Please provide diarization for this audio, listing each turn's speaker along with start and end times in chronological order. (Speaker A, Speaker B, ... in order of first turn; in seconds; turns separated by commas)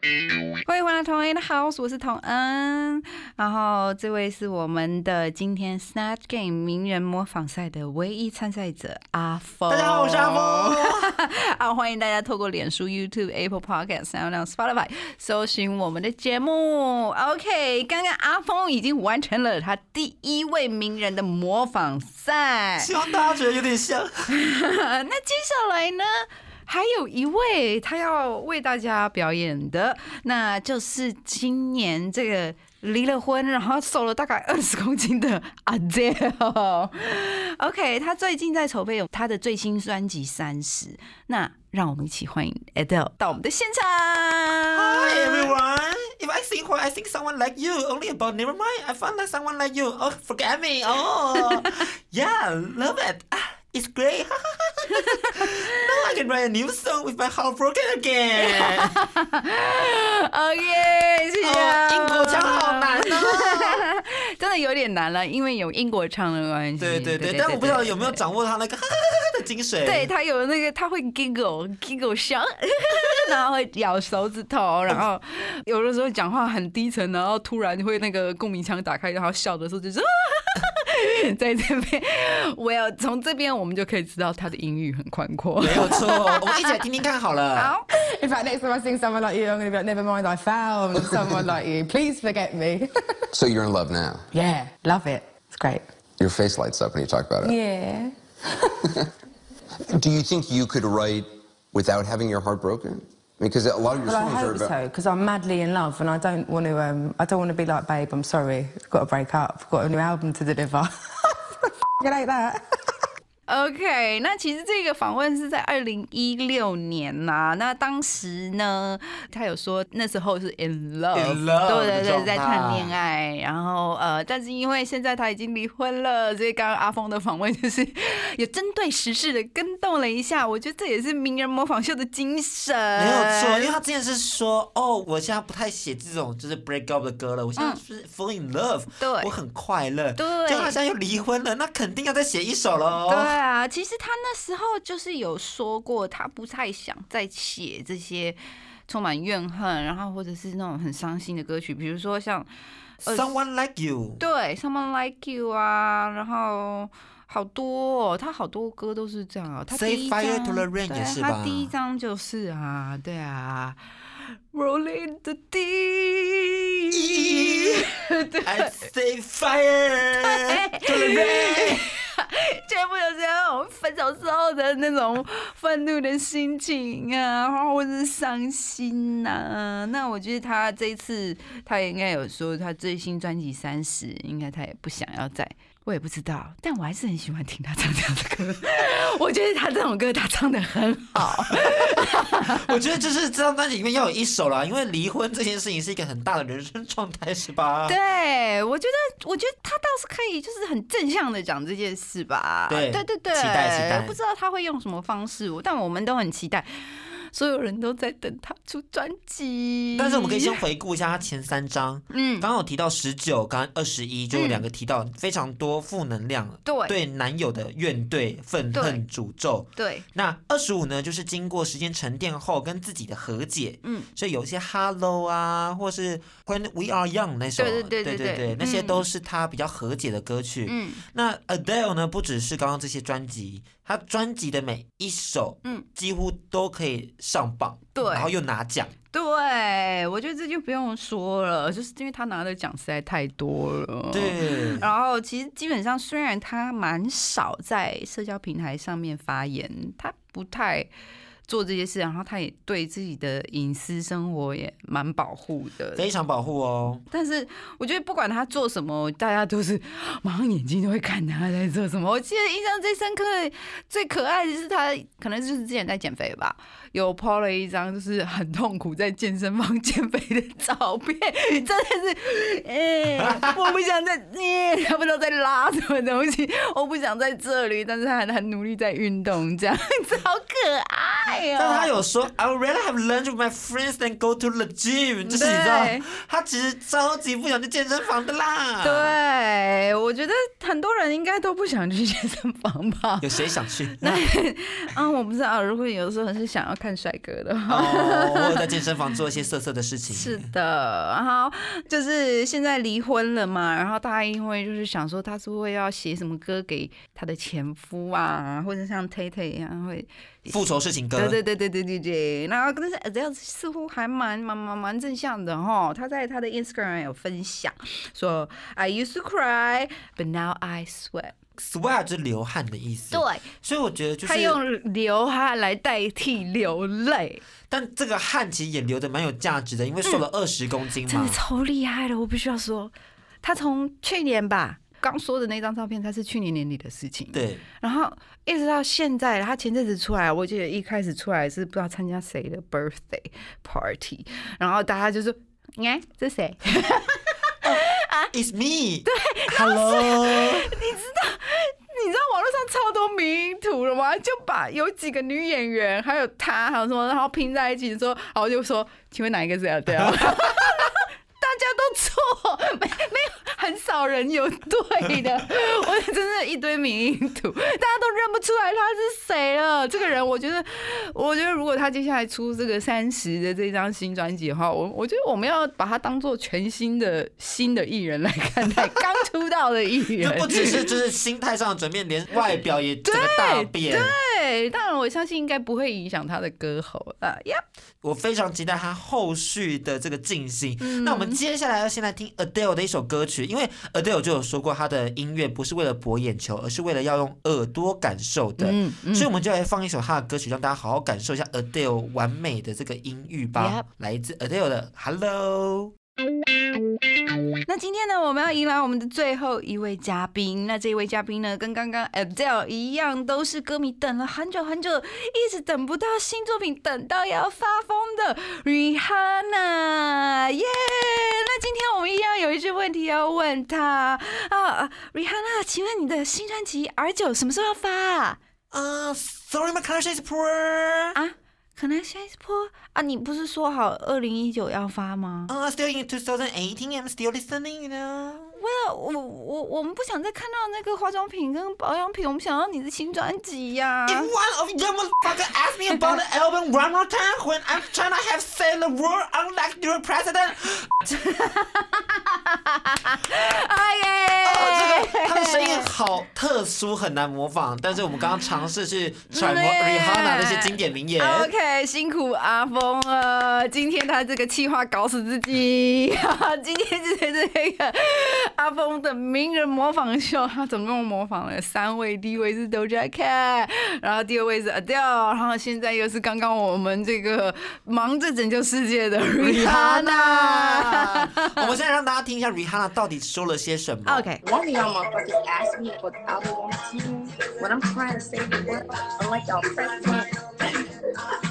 Speaker A: 0.6-22.9, Speaker B: 9.7-11.1, Speaker B: 22.8-24.3, Speaker A: 24.3-45.5, Speaker B: 44.7-58.9, Speaker A: 54.9-55.5, Speaker A: 58.4-68.2, Speaker B: 61.4-63.8, Speaker B: 66.8-70.1, Speaker A: 69.8-86.7, Speaker B: 85.6-87.7, Speaker A: 87.5-87.8, Speaker C: 88.0-92.9, Speaker D: 93.3-94.2, Speaker C: 94.3-95.8, Speaker D: 96.2-97.5, Speaker C: 97.4-98.1, Speaker D: 99.9-104.7, Speaker C: 104.0-111.4, Speaker C: 112.0-112.6, Speaker A: 113.5-133.7, Speaker B: 121.1-122.9, Speaker B: 132.9-143.3, Speaker A: 139.0-139.3, Speaker A: 140.2-140.8, Speaker A: 143.1-152.5, Speaker B: 153.0-154.2, Speaker A: 153.0-153.4, Speaker A: 154.2-163.8, Speaker B: 159.7-161.7, Speaker A: 164.5-168.7, Speaker B: 166.9-167.9, Speaker B: 168.4-171.8, Speaker A: 170.2-192.8, Speaker B: 191.1-197.9, Speaker A: 197.9-210.6, Speaker B: 202.7-204.2, Speaker B: 209.9-238.9, Speaker A: 212.1-212.4, Speaker A: 214.3-214.6, Speaker A: 216.7-216.9, Speaker A: 218.7-219.0, Speaker A: 219.8-220.1, Speaker A: 223.8-224.1, Speaker A: 227.6-229.0, Speaker A: 230.7-231.0, Speaker A: 237.9-238.3, Speaker A: 239.1-250.9, Speaker B: 244.1-244.9, Speaker A: 251.5-256.1, Speaker B: 255.9-257.0, Speaker A: 257.1-282.0, Speaker B: 273.2-273.5, Speaker B: 281.6-289.1, Speaker A: 285.2-286.1, Speaker A: 288.8-293.3, Speaker B: 293.2-294.2, Speaker A: 294.0-298.7, Speaker B: 297.7-300.5, Speaker A: 300.1-310.6, Speaker B: 310.5-311.4, Speaker A: 311.1-321.3, Speaker B: 321.6-324.6, Speaker A: 323.1-323.4, Speaker A: 324.2-327.4, Speaker B: 327.7-331.4, Speaker A: 331.1-332.9, Speaker A: 333.4-348.3, Speaker B: 337.3-337.6, Speaker B: 347.6-350.7, Speaker A: 349.1-380.9, Speaker B: 359.9-360.9, Speaker B: 380.2-384.1, Speaker A: 383.0-387.6, Speaker B: 388.0-405.9, Speaker A: 390.8-391.4, Speaker A: 398.6-399.3, Speaker A: 403.6-403.9, Speaker A: 407.7-428.4, Speaker B: 428.7-431.2, Speaker A: 431.1-435.5, Speaker B: 435.5-438.6, Speaker A: 438.5-444.3, Speaker B: 444.1-451.1, Speaker A: 451.1-455.9, Speaker B: 454.4-461.5, Speaker A: 459.3-481.7, Speaker B: 479.4-484.3, Speaker A: 484.1-484.4, Speaker E: 484.4-490.8